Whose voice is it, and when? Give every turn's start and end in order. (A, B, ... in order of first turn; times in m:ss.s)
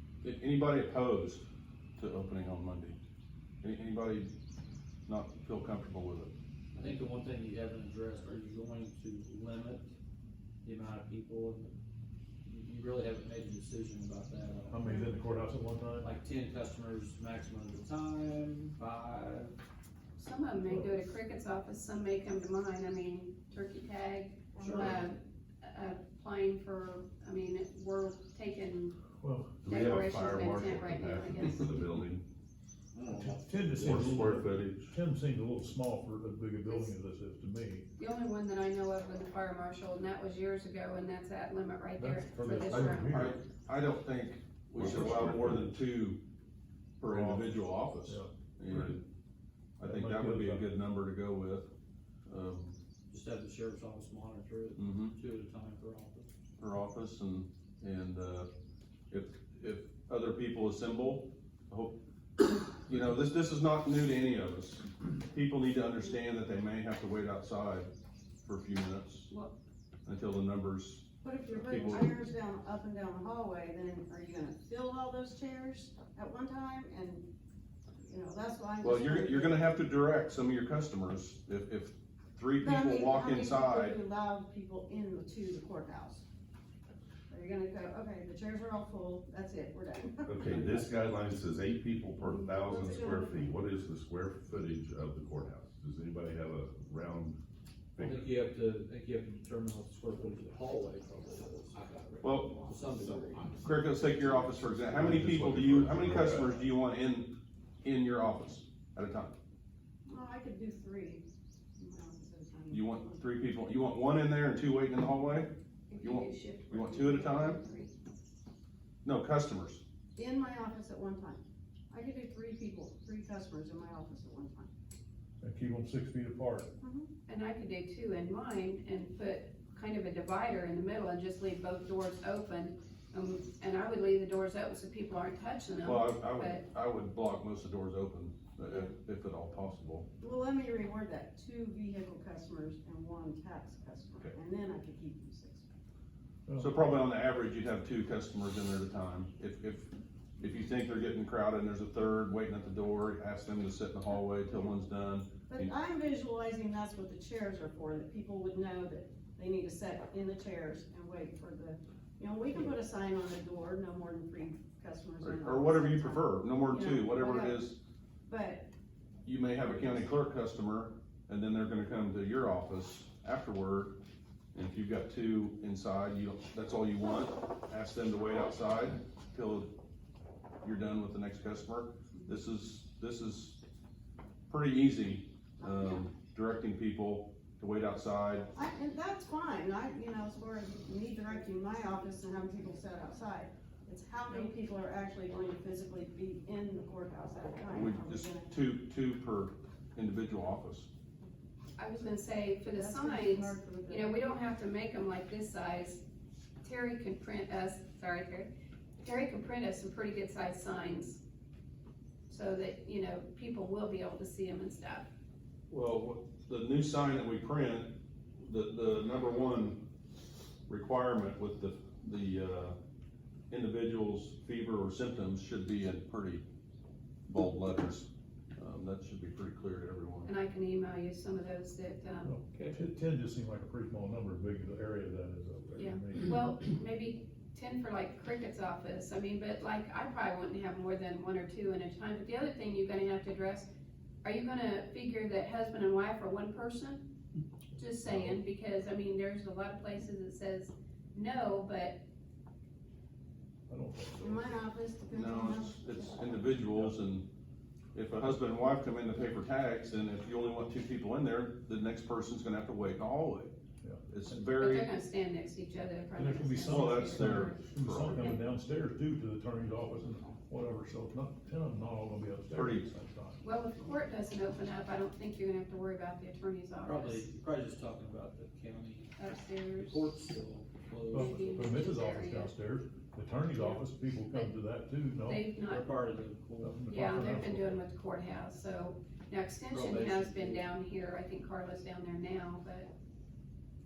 0:00.2-0:01.4 A
0:02.0-0:02.9 A
0:03.6-0:04.1 A
0:05.1-0:06.3 A
0:06.7-0:09.9 B
0:10.6-0:11.7 B
0:12.4-0:14.9 B
0:14.7-0:16.1 C
0:16.0-0:19.5 B
0:20.2-0:24.2 D
0:20.2-0:25.2 A
0:24.6-0:25.0 B
0:24.8-0:25.1 D
0:25.7-0:28.9 A
0:26.1-0:26.9 D
0:29.2-0:29.8 C
0:29.6-0:32.2 E
0:29.7-0:31.5 A
0:29.7-0:31.7 D
0:32.9-0:34.4 B
0:33.2-0:37.8 C
0:33.8-0:34.9 E
0:38.0-0:43.3 D
0:38.3-0:40.3 A
0:41.8-0:44.4 A
0:42.0-0:43.4 C
0:44.7-0:45.7 E
0:44.8-0:45.6 C
0:45.3-0:45.8 A
0:47.0-0:48.8 A
0:47.0-0:49.0 C
0:49.8-0:51.7 A
0:49.8-0:50.7 C
0:52.2-0:52.8 A
0:53.1-0:56.3 B
0:56.6-0:58.5 A
0:59.1-1:01.9 A
1:02.8-1:07.9 A
1:08.4-1:09.5 A
1:10.0-1:11.0 A
1:11.2-1:17.2 F
1:18.0-1:19.7 F
1:18.9-1:23.9 A
1:22.6-1:26.2 F
1:27.3-1:30.7 F
1:30.3-1:37.4 E
1:32.2-1:33.5 F
1:38.0-1:38.2 E
1:38.0-1:44.5 B
1:43.7-1:49.3 A
1:44.3-1:46.6 E
1:50.0-1:51.2 F
1:51.8-1:53.3 F
1:52.8-1:57.9 A
1:55.9-1:57.8 D
1:59.0-1:59.8 A
2:00.2-2:01.4 F
2:01.9-2:04.7 F
2:05.4-2:06.7 C
2:06.8-2:07.1 F
2:07.3-2:12.2 D
2:07.6-2:13.6 A
2:13.2-2:16.6 D
2:14.6-2:20.1 A
2:18.7-2:19.0 F
2:20.2-2:25.6 F
2:26.5-2:26.9 C
2:26.9-2:35.3 A
2:35.5-2:47.7 F
2:45.2-2:47.7 A
2:48.3-2:48.7 F
2:49.2-2:54.0 A
2:54.5-2:59.7 A
3:00.6-3:03.6 A
3:04.5-3:08.5 A
3:05.6-3:06.0 F
3:08.5-3:18.6 F
3:17.8-3:20.9 A
3:21.8-3:23.4 A
3:22.1-3:25.9 D
3:22.7-3:24.2 F
3:24.1-3:26.0 A
3:26.6-3:28.4 D
3:26.7-3:28.4 A
3:29.0-3:31.0 D
3:29.1-3:31.2 A
3:32.3-3:34.2 A
3:32.3-3:35.0 D
3:35.7-3:39.8 A
3:40.7-3:42.8 A
3:43.5-3:46.4 A
3:47.3-3:52.2 A
3:50.2-3:52.3 D
3:52.2-3:56.5 C
3:55.8-3:57.1 D
3:56.3-4:03.6 A
3:57.9-4:03.6 D
4:04.2-4:06.5 D
4:04.3-4:07.0 A
4:07.8-4:10.7 D
4:08.0-4:12.0 A
4:08.0-4:08.4 C
4:11.2-4:11.6 D
4:13.7-4:14.6 C
4:14.2-4:16.6 F
4:15.1-4:17.3 A
4:16.5-4:16.9 C
4:17.9-4:23.5 A
4:24.1-4:25.3 A
4:24.6-4:28.4 D
4:26.0-4:28.4 A
4:26.2-4:33.4 C
4:32.6-4:32.9 A
4:33.4-4:36.9 D
4:33.4-4:37.2 A
4:36.8-4:39.1 B
4:39.2-4:39.9 D
4:39.2-4:39.9 A
4:39.8-4:41.8 B
4:41.1-4:45.4 C
4:41.1-4:42.5 D
4:41.7-4:42.0 A
4:45.3-4:45.8 D
4:45.6-4:46.8 B
4:46.6-4:47.8 C
4:46.9-4:52.7 D
4:47.0-4:52.9 A
4:49.7-4:50.7 B